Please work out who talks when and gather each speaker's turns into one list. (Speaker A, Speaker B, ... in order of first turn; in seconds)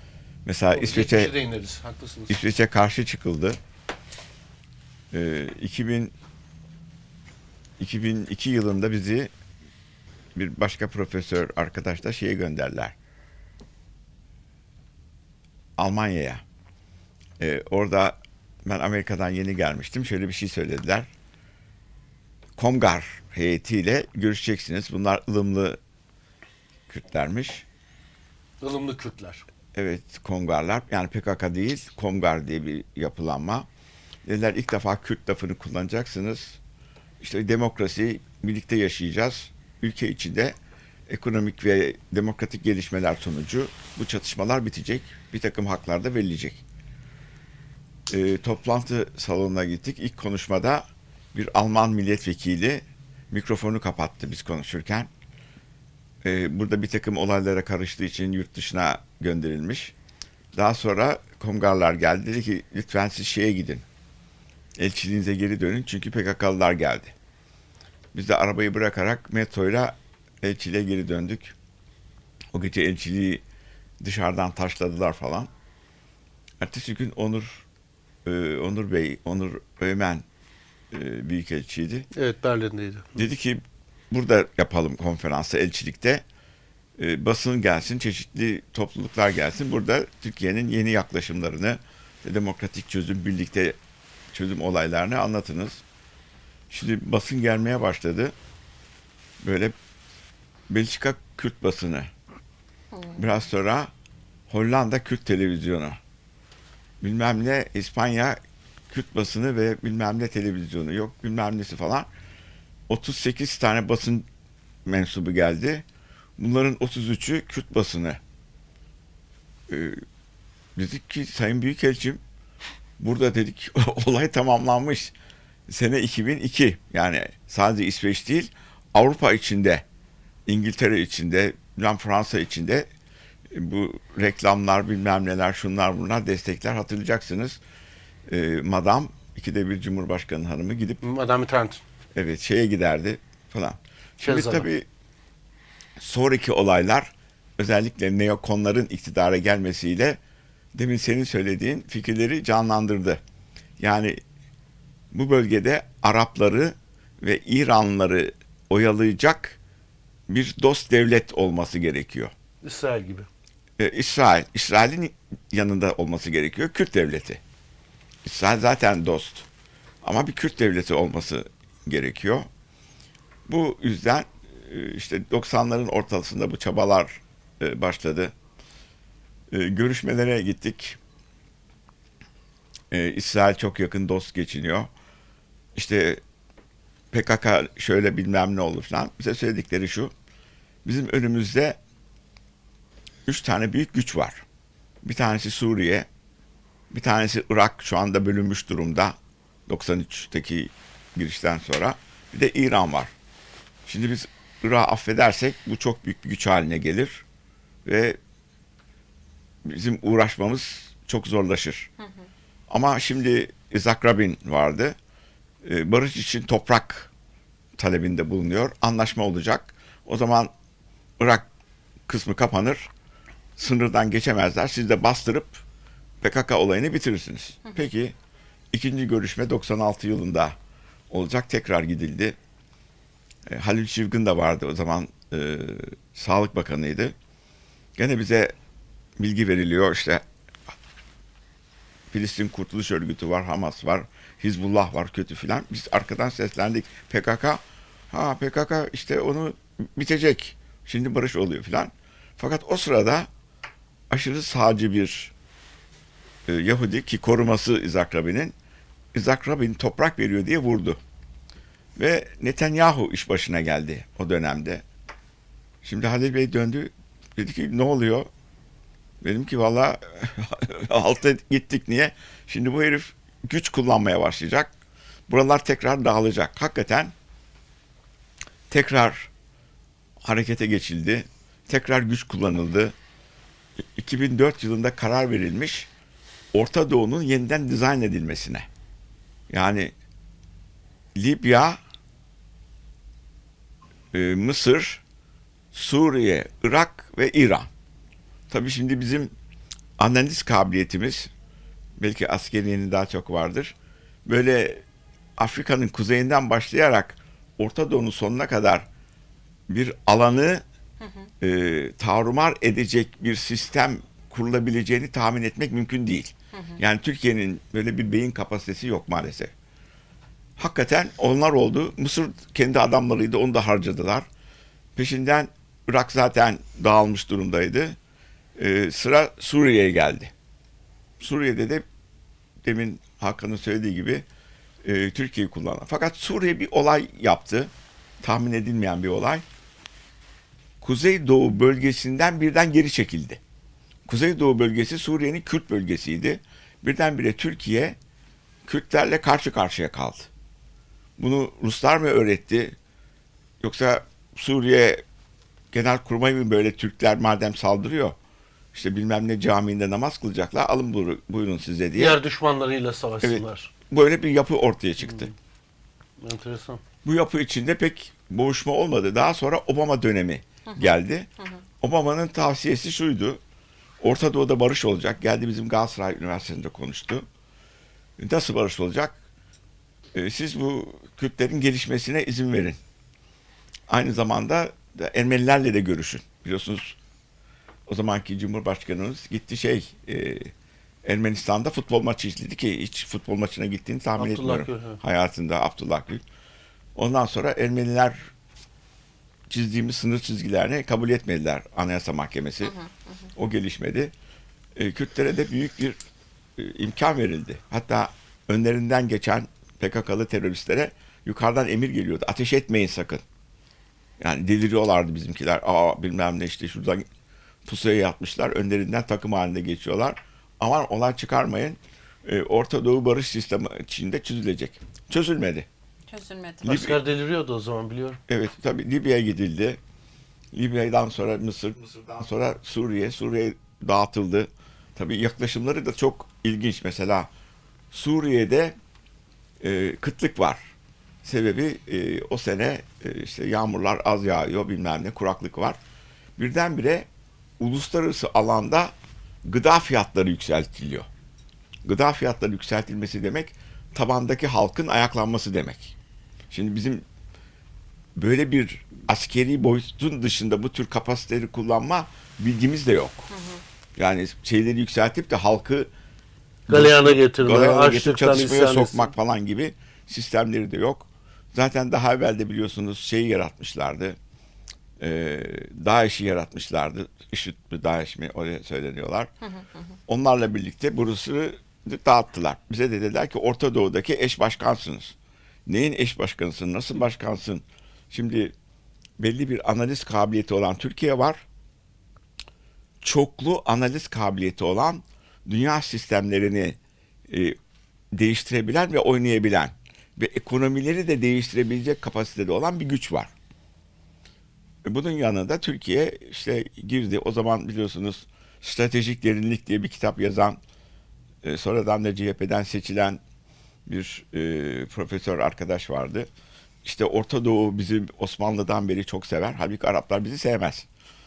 Speaker A: 0.4-1.3, 2.3-3.6, 5.1-6.1, 7.8-9.3, 10.3-12.9, 15.8-16.4, 17.4-21.1, 22.6-25.8, 26.9-27.6, 29.7-33.7, 34.2-36.6, 37.2-40.5, 41.1-46.6, 48.1-55.1, 56.2-59.9, 60.5-63.8, 64.8-67.1, 68.1-71.5, 72.5-73.4, 74.0-75.5, 76.6-77.6, 78.2-80.2, 80.9-82.1, 83.2-86.2, 87.0-93.8, 94.3-95.8, 96.7-98.3, 99.4-99.7, 100.7-102.1, 103.1-103.9, 104.5-106.0, 107.0-108.4, 108.9-112.1, 112.9-114.3, 114.8-115.8, 116.4-118.2, 119.7-120.0, 120.8-122.2, 123.0-125.1, 125.7-129.8, 130.5-132.9, 133.5-137.6, 138.3-141.0, 142.1-144.8, 146.0-150.2, 150.7-153.2, 153.8-154.2, 155.1-159.6, 160.3-162.3, 163.8-167.4, 168.2-169.4, 170.0-172.5, 173.5-178.3, 179.5-181.0, 182.9-184.9, 185.8-186.2, 187.1-190.1, 190.8-191.8, 193.3-194.4, 195.0-196.1, 196.9-199.1, 199.7-203.1, 203.8-207.2, 207.8-208.2, 209.6-211.9, 212.7-214.9, 215.6-217.1, 217.8-220.5, 221.2-221.4, 222.1-222.9, 223.6-225.6, 226.2-228.1, 228.7-230.5, 231.1-232.3, 233.5-237.1, 238.0-238.5, 239.2-240.2, 242.1-253.3, 254.1-255.3, 256.5-258.5, 259.1-261.0, 262.0-264.8, 265.8-268.3, 269.2-274.7, 275.3-277.1, 278.7-279.3, 280.2-282.9, 283.9-285.9, 286.5-288.7, 289.5-289.9, 291.1-291.8, 294.1-295.0, 295.7-297.7, 298.5-299.3, 300.0-301.3, 302.0-303.7, 304.2-304.8, 305.4-308.9, 309.7-310.6, 311.4-319.5, 320.6-324.2, 324.9-328.0, 328.6-330.3, 331.2-331.8, 332.6-334.2, 334.8-339.4, 340.8-343.4, 344.1-347.9, 348.6-350.3, 351.2-352.7, 353.6-355.0, 355.7-358.1, 358.7-362.2, 363.2-365.3, 367.0-371.3, 371.8-373.4, 374.0-377.2, 378.2-379.1, 380.1-382.8, 383.9-386.9, 387.9-390.5, 391.0-396.2, 396.9-398.3, 399.5-402.8, 403.3-404.1, 404.7-406.0, 406.6-413.2, 414.2-417.0, 417.6-425.7, 426.6-427.0, 428.3-429.8, 430.5-437.3, 437.9-438.7, 439.6-440.7, 441.2-445.8, 446.4-447.1, 447.6-448.9, 449.4-451.1, 451.8-455.9, 456.5-457.0, 458.1-463.3, 464.0-465.9, 466.7-474.1, 475.0-479.3, 480.1-485.1, 485.7-488.5, 489.2-491.4, 493.0-496.8, 497.3-497.6, 498.1-503.3, 504.8-510.6, 511.4-513.2, 513.9-516.3, 516.8-520.9
Speaker B: 0.7-2.4, 28.6-29.4, 82.1-83.2, 141.0-141.8, 144.2-144.7, 162.6-163.3, 361.9-363.7, 366.2-366.8, 394.2-395.0, 426.6-428.2, 466.7-469.1
Speaker C: 102.9-103.2, 316.5-316.8, 370.7-371.6, 426.1-426.8, 463.3-463.6, 479.4-479.9